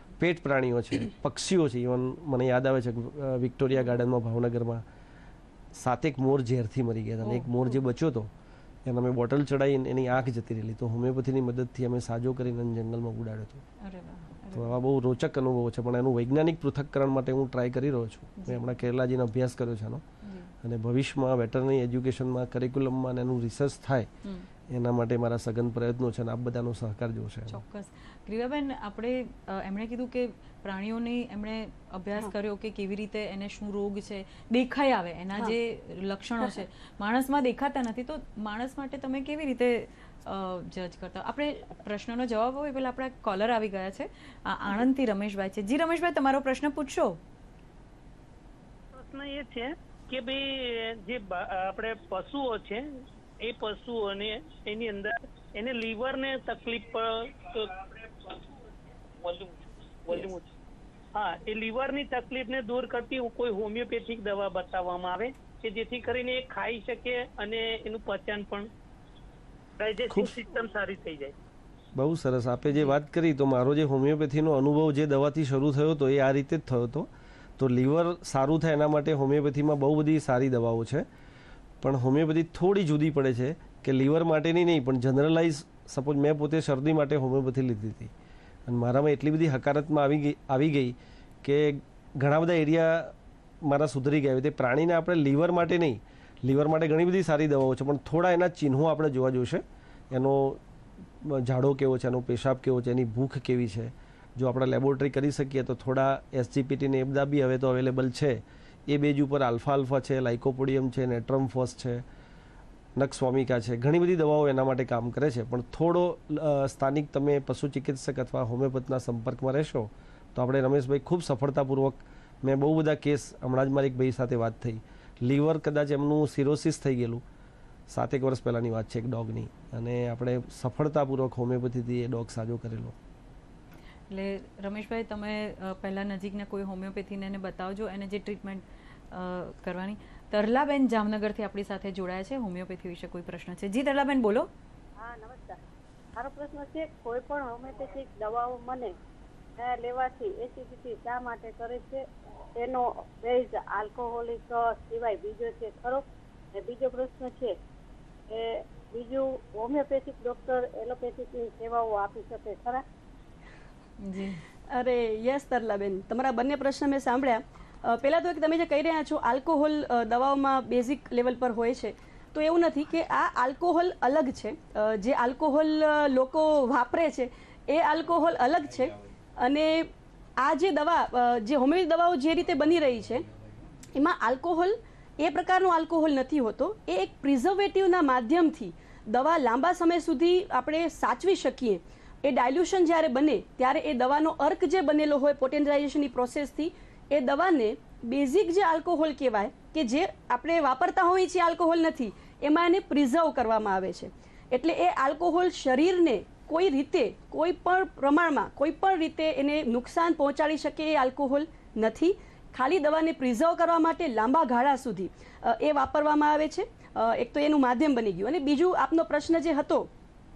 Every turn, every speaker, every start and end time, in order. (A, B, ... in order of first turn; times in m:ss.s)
0:00.2-0:04.8 A
0:05.7-0:08.3 A
0:07.2-0:07.8 B
0:08.8-0:13.6 A
0:13.8-0:14.8 B
0:14.5-0:20.0 A
0:18.4-0:18.6 B
0:20.2-0:20.5 B
0:20.6-0:24.1 A
0:24.7-0:27.6 A
0:27.5-0:47.2 B
0:48.9-0:52.8 C
0:53.4-0:58.4 C
0:59.2-1:00.5 C
1:01.1-1:08.7 C
1:09.8-1:11.3 C
1:10.1-1:10.3 A
1:11.9-1:21.1 A
1:21.8-1:28.1 A
1:28.6-1:40.6 A
1:41.2-1:52.0 A
1:53.0-2:07.2 A
2:07.9-2:13.0 A
2:14.1-2:24.5 B
2:25.0-2:25.6 D
2:26.2-2:28.9 D
2:29.6-2:32.0 D
2:32.6-2:36.0 D
2:36.5-2:37.5 D
2:38.3-2:42.8 D
2:44.0-2:44.4 B
2:44.7-3:03.3 E
3:03.9-3:39.9 E